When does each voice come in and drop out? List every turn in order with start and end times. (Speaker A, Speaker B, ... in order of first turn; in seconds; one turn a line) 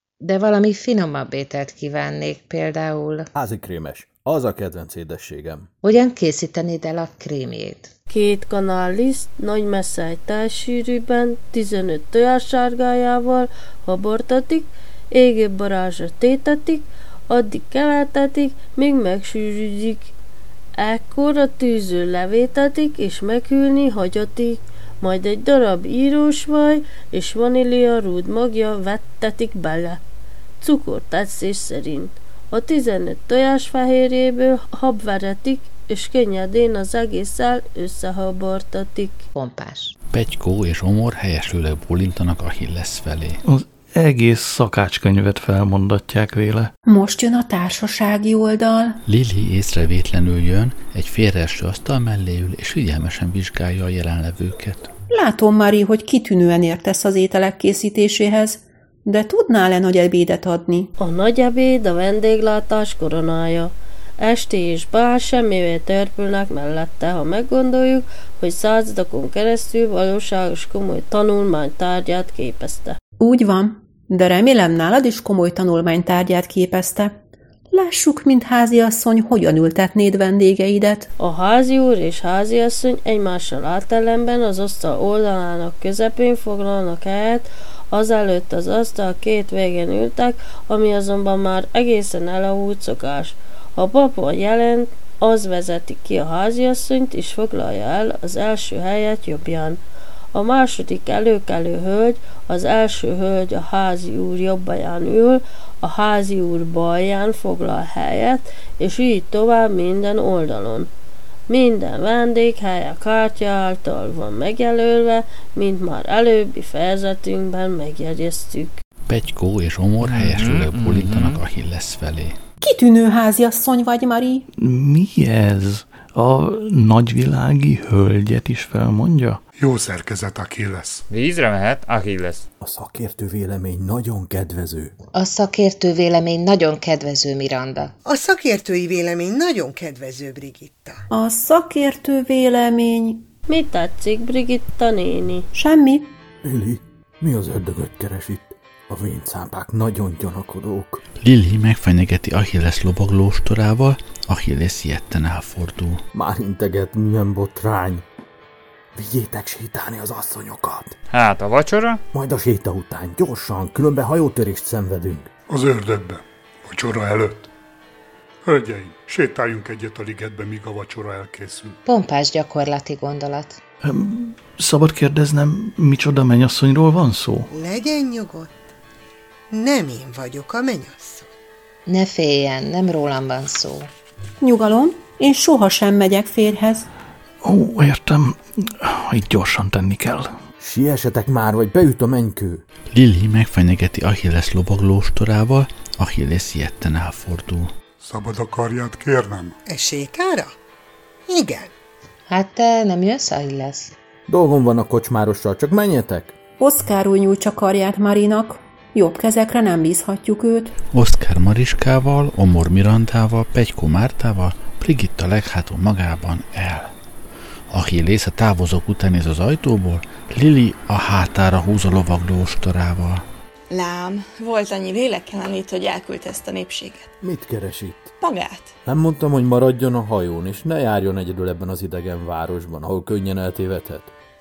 Speaker A: 0.2-3.3
Speaker B: 3.3-5.7
Speaker A: 5.8-7.9
Speaker C: 8.1-20.1
Speaker C: 20.8-30.0
Speaker C: 30.6-39.2
Speaker A: 39.3-39.9
Speaker D: 40.1-43.4
Speaker E: 43.5-46.7
Speaker F: 46.9-49.0
Speaker D: 49.0-54.9
Speaker F: 55.1-60.9
Speaker C: 61.0-73.0
Speaker F: 73.2-77.1
Speaker F: 77.7-81.1
Speaker C: 81.2-99.8
Speaker C: 100.3-110.9
Speaker C: 111.5-118.7
Speaker D: 119.1-122.3
Speaker G: 120.0-121.4
Speaker F: 122.6-124.5
Speaker E: 124.6-129.4
Speaker H: 129.6-131.0
Speaker G: 131.1-132.4
Speaker B: 132.6-134.9
Speaker A: 135.1-137.9
Speaker I: 138.0-141.0
Speaker F: 141.1-143.2
Speaker C: 143.5-145.5
Speaker F: 145.5-146.1
Speaker B: 146.4-151.0
Speaker D: 151.2-156.0
Speaker B: 156.1-158.0
Speaker B: 158.9-160.9
Speaker G: 161.1-162.0
Speaker B: 162.1-165.3
Speaker H: 165.5-167.5
Speaker H: 168.4-171.8
Speaker A: 171.8-173.6
Speaker E: 173.8-177.5
Speaker I: 177.5-178.5
Speaker I: 179.5-181.3
Speaker A: 181.8-183.9
Speaker F: 184.4-186.8
Speaker E: 187.4-190.4
Speaker B: 190.6-192.6
Speaker D: 192.9-197.7
Speaker H: 198.0-199.6
Speaker I: 199.7-200.5
Speaker I: 201.3-201.7
Speaker A: 202.3-203.9
Speaker B: 204.3-206.3
Speaker F: 206.6-210.8
Speaker D: 210.9-216.9
Speaker D: 217.7-223.2
Speaker J: 223.7-227.1
Speaker B: 227.2-228.1
Speaker J: 228.2-228.7
Speaker B: 228.8-234.1